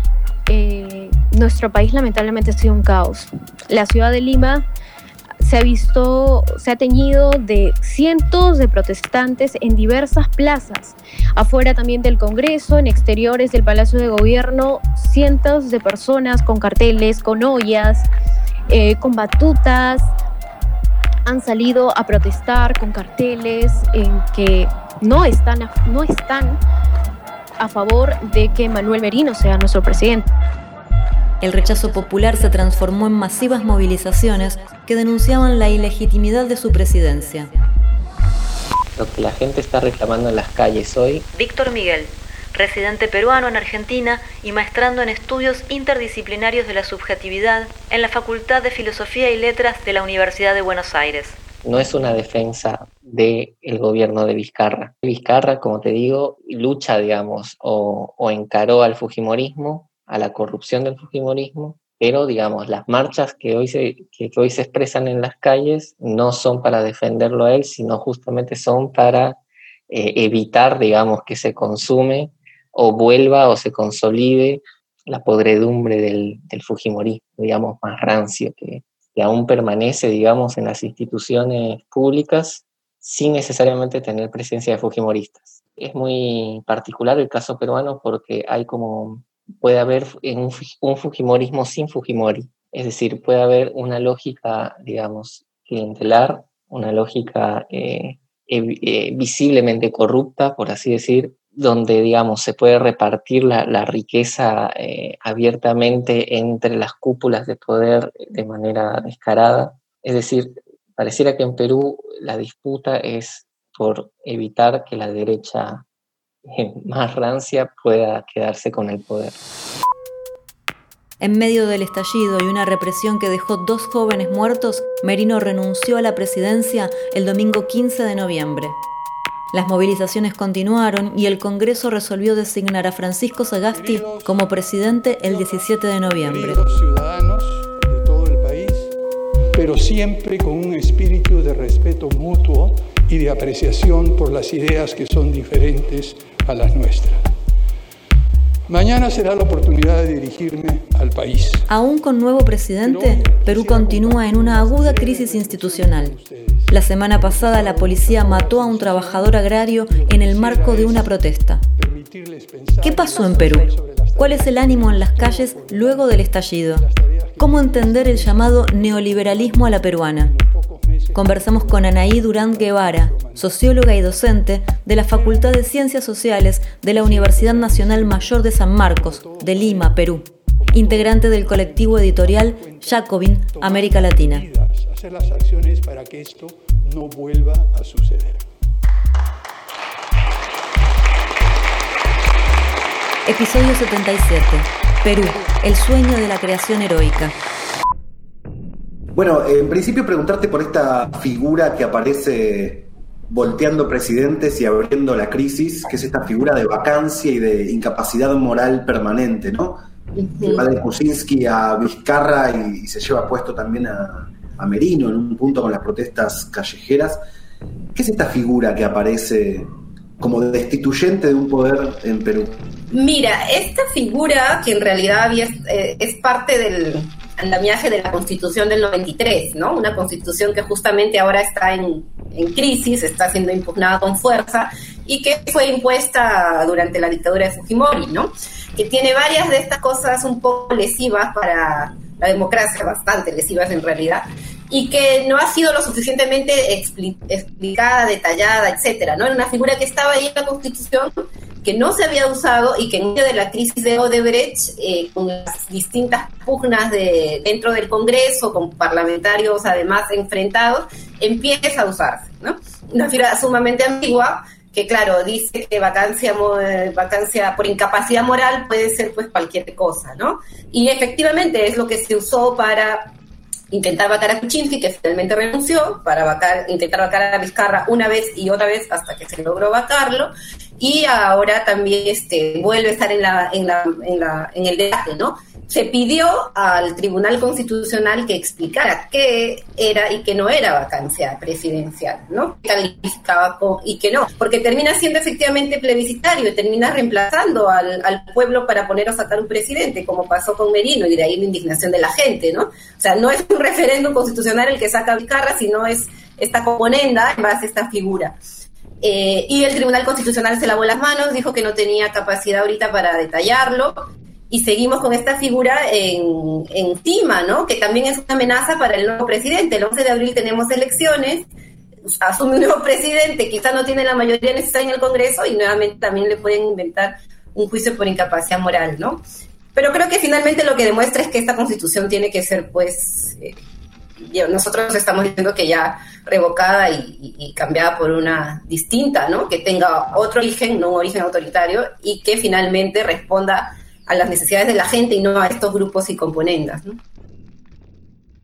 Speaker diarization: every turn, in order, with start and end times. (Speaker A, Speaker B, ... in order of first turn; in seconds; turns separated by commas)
Speaker A: 0.5-4.7, Speaker A: 5.4-18.1, Speaker A: 18.7-20.1, Speaker A: 21.3-26.6, Speaker A: 27.6-30.3, Speaker B: 31.4-37.5, Speaker C: 39.0-41.3, Speaker B: 41.3-51.4, Speaker C: 51.6-69.4, Speaker C: 69.9-115.8, Speaker C: 116.5-119.4, Speaker B: 121.2-128.8, Speaker B: 129.5-136.7, Speaker D: 133.7-138.9, Speaker D: 139.6-147.2, Speaker D: 148.7-151.7, Speaker B: 151.7-156.1, Speaker D: 152.8-161.2, Speaker B: 156.7-161.6, Speaker D: 161.8-174.0, Speaker B: 162.8-170.3, Speaker B: 171.1-184.4, Speaker D: 175.1-175.6, Speaker D: 176.9-188.4, Speaker B: 193.3-197.3, Speaker E: 199.1-209.8, Speaker F: 210.2-210.6, Speaker E: 210.4-217.2, Speaker E: 217.9-222.6, Speaker F: 222.9-273.1, Speaker F: 273.7-308.4, Speaker F: 309.0-314.0, Speaker F: 314.5-321.5, Speaker F: 322.2-329.2, Speaker F: 329.8-333.6, Speaker F: 334.2-347.0